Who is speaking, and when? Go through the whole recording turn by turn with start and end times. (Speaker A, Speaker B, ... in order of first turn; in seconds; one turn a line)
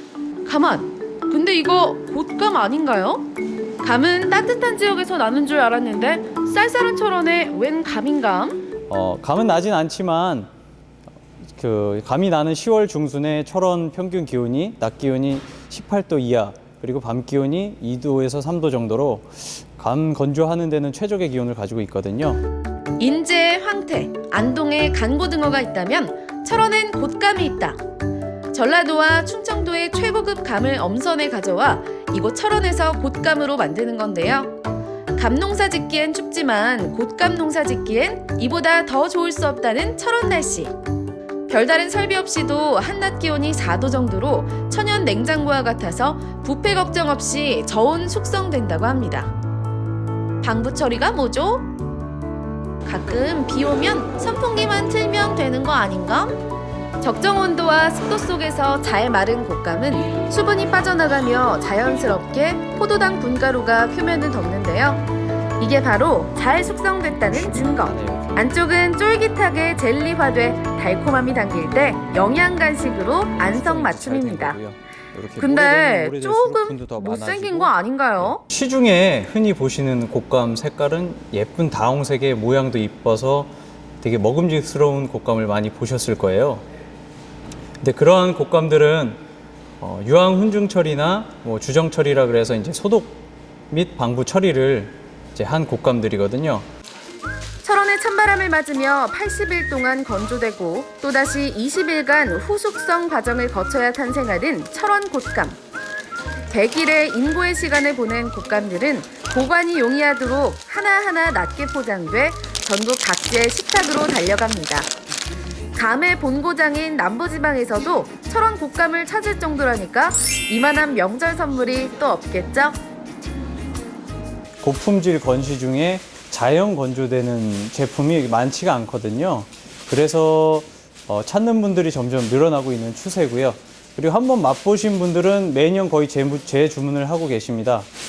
Speaker A: 0.4-3.3
Speaker A: 3.8-8.6
Speaker B: 8.9-10.5
Speaker B: 11.5-22.4
Speaker A: 23.0-27.8
Speaker A: 28.5-34.5
Speaker A: 35.1-40.8
Speaker A: 41.5-49.3
Speaker A: 50.4-51.7
Speaker A: 52.8-56.4
Speaker A: 57.0-65.0
Speaker A: 65.6-74.6
Speaker B: 67.1-68.5
Speaker B: 73.4-86.6
Speaker A: 75.4-78.4
Speaker B: 87.8-89.2
Speaker B: 89.8-96.7
Speaker A: 97.6-105.6
Speaker A: 106.5-114.9
Speaker A: 115.7-122.8
Speaker B: 124.6-137.9